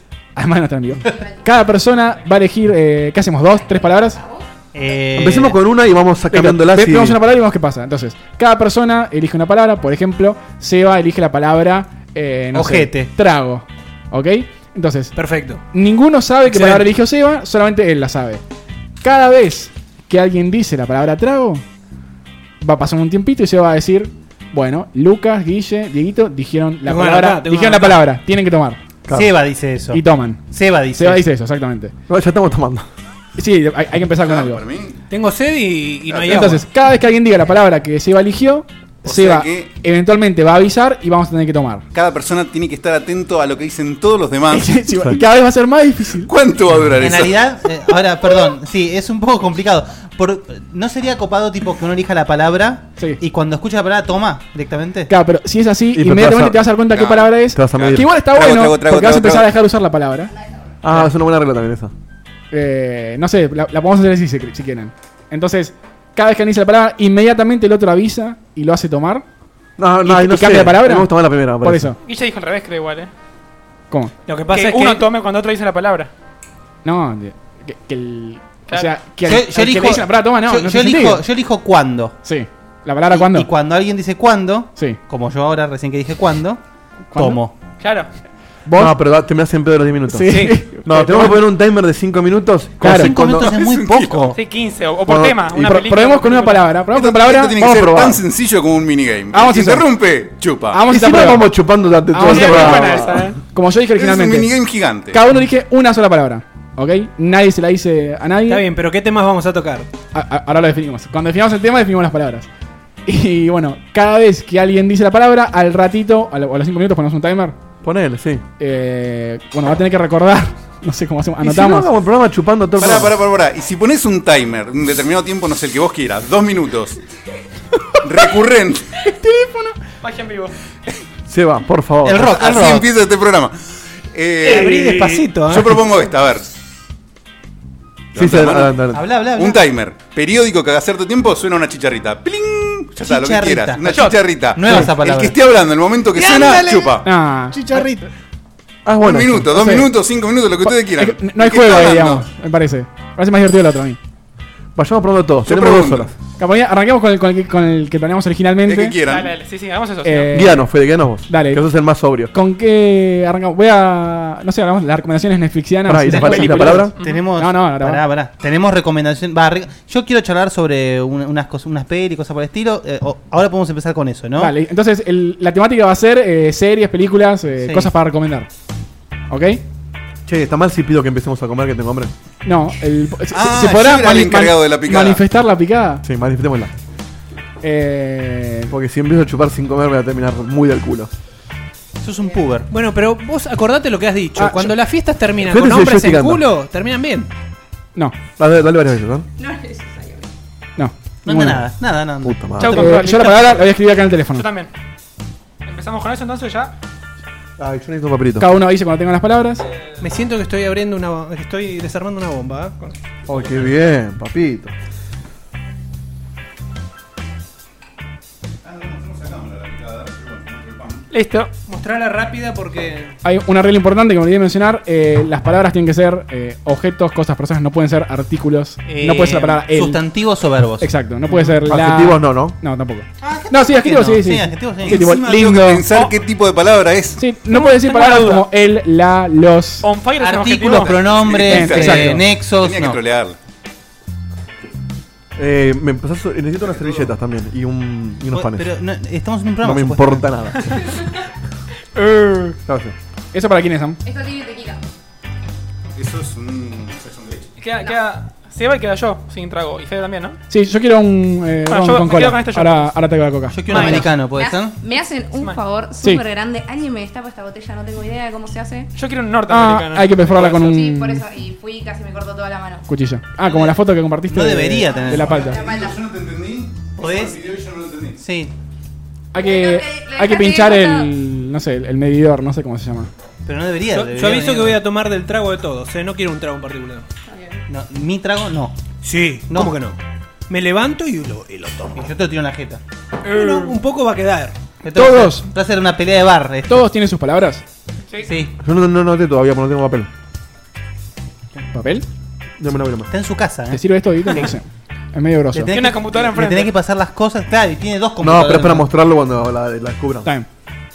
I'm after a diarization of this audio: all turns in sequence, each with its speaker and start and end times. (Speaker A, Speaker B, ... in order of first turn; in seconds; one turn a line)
Speaker A: 0.3-4.2
Speaker B: 1.1-1.4
Speaker B: 3.6-4.5
Speaker C: 4.7-5.6
Speaker D: 5.1-7.2
Speaker A: 6.3-15.1
Speaker C: 12.5-13.1
Speaker E: 15.1-15.6
Speaker A: 15.7-18.4
Speaker E: 16.4-16.9
Speaker A: 19.0-21.6
Speaker A: 22.6-28.8
Speaker E: 26.8-28.1
Speaker D: 29.1-29.3
Speaker C: 29.1-31.2
Speaker A: 29.9-31.9
Speaker D: 32.1-32.9
Speaker A: 33.4-34.6
Speaker F: 34.2-35.0
Speaker E: 35.1-36.6
Speaker F: 36.1-36.5
Speaker A: 36.3-41.8
Speaker F: 39.0-39.7
Speaker F: 41.9-44.7
Speaker A: 44.5-46.3
Speaker F: 46.2-47.4
Speaker C: 47.0-55.1
Speaker A: 55.1-60.3
Speaker D: 55.9-56.8
Speaker F: 56.9-59.5
Speaker D: 57.5-58.0
Speaker D: 60.8-61.9
Speaker A: 62.5-69.2
Speaker D: 69.8-71.9
Speaker A: 70.0-72.0
Speaker G: 72.0-73.1
Speaker E: 74.2-75.0
Speaker G: 74.5-76.1
Speaker A: 76.8-81.2
Speaker C: 79.2-82.2
Speaker A: 82.2-83.5
Speaker C: 83.1-86.6
Speaker A: 87.1-87.4
Speaker C: 87.1-87.5
Speaker G: 87.8-88.1
Speaker A: 88.7-89.0
Speaker D: 88.7-93.5
Speaker A: 90.1-91.4
Speaker E: 90.3-90.6
Speaker A: 92.8-93.1
Speaker C: 92.8-94.4
Speaker F: 93.3-94.3
Speaker G: 94.3-96.7
Speaker D: 95.1-95.9
Speaker A: 95.7-97.7
Speaker F: 96.9-100.8
Speaker D: 97.6-98.2
Speaker A: 99.3-99.9
Speaker A: 100.7-101.6
Speaker D: 100.9-103.3
Speaker A: 102.1-104.5
Speaker G: 102.2-103.4
Speaker F: 104.0-105.2
Speaker A: 105.1-108.7
Speaker E: 108.5-109.9
Speaker A: 110.1-112.5
Speaker A: 113.0-117.5
Speaker D: 117.8-118.4
Speaker A: 118.6-121.9
Speaker D: 121.4-123.2
Speaker F: 122.8-127.0
Speaker F: 127.9-129.1
Speaker G: 130.0-130.5
Speaker D: 131.3-132.3
Speaker C: 132.0-132.9
Speaker F: 132.1-134.8
Speaker E: 134.4-135.8
Speaker C: 134.4-135.5
Speaker F: 135.4-136.5
Speaker F: 138.1-147.1
Speaker D: 138.2-139.0
Speaker C: 138.9-139.6
Speaker C: 143.0-145.3
Speaker E: 146.1-146.8
Speaker C: 146.2-146.8
Speaker A: 147.0-147.6
Speaker C: 147.5-148.1
Speaker D: 148.8-149.5
Speaker F: 149.0-152.2
Speaker A: 149.5-149.9
Speaker A: 150.6-154.0
Speaker D: 154.8-156.1
Speaker F: 155.5-156.1
Speaker A: 156.4-159.0
Speaker F: 158.7-159.3
Speaker G: 159.1-160.5
Speaker A: 160.0-161.6
Speaker D: 160.3-162.3
Speaker A: 162.3-168.0
Speaker D: 165.9-166.9
Speaker C: 166.2-174.6
Speaker G: 167.0-167.2
Speaker A: 174.4-178.5
Speaker C: 177.6-177.9
Speaker A: 179.3-179.6
Speaker D: 180.2-182.1
Speaker A: 182.4-186.0
Speaker F: 183.3-185.2
Speaker D: 186.0-186.7
Speaker A: 187.6-188.7
Speaker D: 188.7-191.1
Speaker C: 192.0-192.7
Speaker E: 192.7-197.3
Speaker A: 194.3-194.7
Speaker D: 195.4-196.4
Speaker D: 198.4-199.2
Speaker B: 199.4-200.3
Speaker A: 200.8-201.6
Speaker C: 201.2-202.4
Speaker D: 202.2-203.0
Speaker G: 202.6-203.8
Speaker A: 202.7-204.4
Speaker G: 204.3-204.7
Speaker G: 205.6-206.7
Speaker D: 207.6-208.5
Speaker A: 208.4-209.6
Speaker E: 210.0-213.0
Speaker D: 213.3-214.7
Speaker F: 218.6-221.1
Speaker G: 221.1-221.5
Speaker E: 221.7-223.1
Speaker A: 223.2-230.0
Speaker E: 228.9-229.2
Speaker C: 229.0-230.9
Speaker A: 230.8-235.9
Speaker D: 231.6-232.6
Speaker C: 233.2-235.8
Speaker F: 234.8-237.2
Speaker A: 237.2-239.9
Speaker G: 237.5-238.4
Speaker G: 239.8-241.0
Speaker C: 240.2-243.0
Speaker F: 240.7-243.3
Speaker A: 241.4-242.2
Speaker D: 245.3-248.7
Speaker F: 246.7-247.1
Speaker C: 248.3-250.3
Speaker D: 249.6-250.9
Speaker G: 250.6-250.9
Speaker G: 251.9-252.6
Speaker D: 252.7-252.9
Speaker A: 253.3-254.0
Speaker B: 254.0-254.8
Speaker F: 255.9-257.5
Speaker G: 257.6-260.4
Speaker A: 260.5-264.0
Speaker G: 261.7-262.9
Speaker C: 263.5-264.8
Speaker G: 263.7-264.1
Speaker B: 264.2-268.9
Speaker G: 268.9-270.7
Speaker A: 269.5-271.2
Speaker B: 270.5-272.8
Speaker A: 272.9-275.6
Speaker C: 274.3-275.7
Speaker F: 275.3-278.2
Speaker B: 275.3-276.0
Speaker C: 277.0-277.4
Speaker C: 278.2-278.5
Speaker A: 279.3-283.1
Speaker B: 279.3-281.1
Speaker C: 283.4-284.8
Speaker E: 283.9-287.1
Speaker B: 287.3-287.6
Speaker C: 287.7-288.8
Speaker E: 289.0-292.0
Speaker C: 289.5-289.7
Speaker C: 291.9-292.8
Speaker E: 293.2-294.6
Speaker G: 293.2-293.8
Speaker C: 294.8-296.9
Speaker A: 294.9-295.5
Speaker A: 296.7-297.6
Speaker C: 298.2-298.5
Speaker D: 298.6-300.1
Speaker A: 301.7-302.1
Speaker D: 302.6-303.1
Speaker C: 303.1-304.5
Speaker A: 303.7-305.7
Speaker C: 305.5-308.9
Speaker G: 305.7-306.7
Speaker D: 308.2-310.3